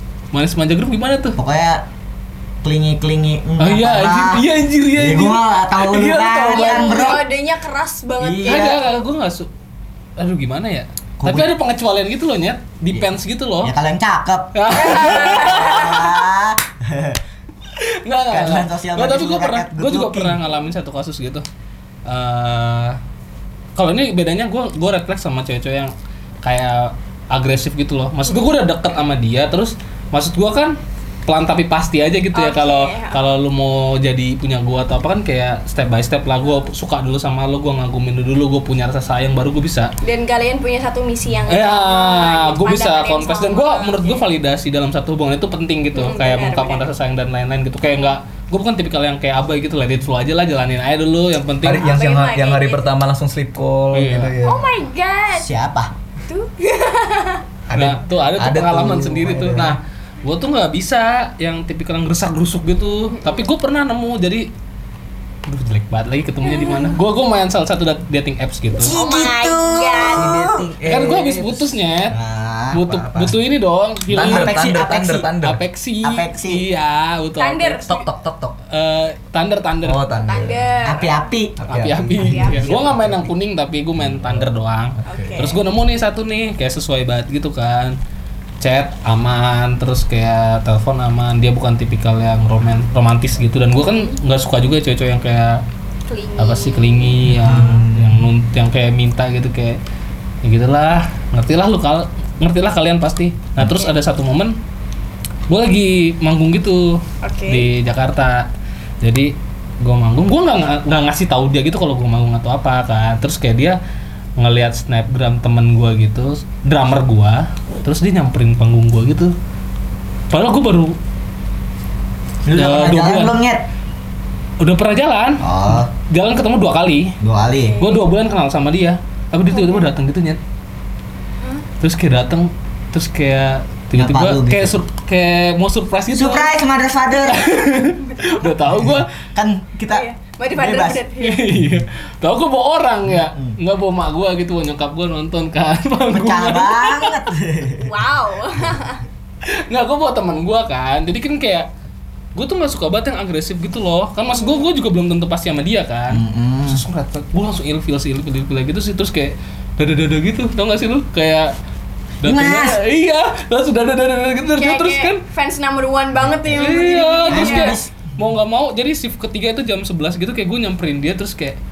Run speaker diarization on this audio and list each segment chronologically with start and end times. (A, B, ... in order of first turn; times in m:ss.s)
0:00.3-0:01.4 A
0:01.4-0:01.8 B
0:02.6-0:04.4 B
0:03.6-0:07.2 A
0:05.0-0:07.2 B
0:06.5-0:08.8 C
0:08.2-0:08.8 B
0:08.4-0:09.5 A
0:10.2-0:13.7 A
0:13.6-0:17.2 B
0:14.5-0:16.0 A
0:14.7-0:16.0 C
0:17.8-0:21.4 A
0:18.3-0:20.4 B
0:22.0-0:23.0 A
0:23.8-0:39.9 A
0:32.3-0:33.3 C
0:40.0-0:44.2 C
0:41.5-0:51.9 A
0:45.9-0:46.9 C
0:51.6-0:54.7 D
0:51.8-0:52.8 C
0:53.9-0:54.4 A
0:54.4-0:55.5 C
0:55.3-0:55.9 B
0:56.3-0:57.4 C
0:57.7-0:59.8 D
0:57.7-1:04.5 A
1:03.1-1:03.4 C
1:05.5-1:09.0 A
1:06.4-1:07.0 C
1:08.8-1:10.5 C
1:08.8-1:10.6 B
1:10.0-1:11.7 D
1:10.8-1:12.2 A
1:12.1-1:12.8 B
1:12.7-1:14.6 A
1:12.7-1:13.3 D
1:14.1-1:15.6 D
1:14.1-1:15.3 B
1:15.4-1:18.0 A
1:16.0-1:16.6 B
1:17.4-1:18.0 C
1:17.9-1:18.6 D
1:18.7-1:20.0 A
1:19.8-1:20.6 D
1:20.3-1:21.3 C
1:20.8-1:21.6 B
1:21.6-1:23.3 D
1:21.7-1:28.0 A
1:22.2-1:22.8 C
1:24.0-1:25.4 D
1:25.0-1:25.6 C
1:28.6-1:35.6 A
1:36.1-1:37.3 C
1:36.4-1:39.8 A
1:37.2-1:38.3 D
1:40.4-1:44.5 A
1:45.5-1:48.5 A
1:47.2-1:47.7 C
1:49.0-1:53.8 A
1:54.4-1:59.3 A
2:00.3-2:01.0 A
2:02.4-2:03.7 B
2:02.5-2:03.4 A
2:04.6-2:07.2 A
2:05.4-2:05.9 B
2:07.2-2:07.8 B
2:07.6-2:08.0 C
2:07.8-2:10.4 A
2:09.5-2:09.9 C
2:11.8-2:16.5 A
2:14.0-2:14.8 B
2:16.1-2:17.4 B
2:17.2-2:19.1 A
2:18.7-2:21.0 B
2:19.9-2:21.4 C
2:21.2-2:27.3 A
2:23.1-2:23.6 B
2:26.1-2:27.9 B
2:27.8-2:29.0 C
2:29.7-2:31.7 A
2:32.3-2:41.5 A
2:34.4-2:34.6 C
2:36.1-2:36.8 B
2:42.2-2:42.8 B
2:42.2-2:45.2 A
2:44.5-2:47.8 C
2:46.5-2:51.6 A
2:47.3-2:47.9 B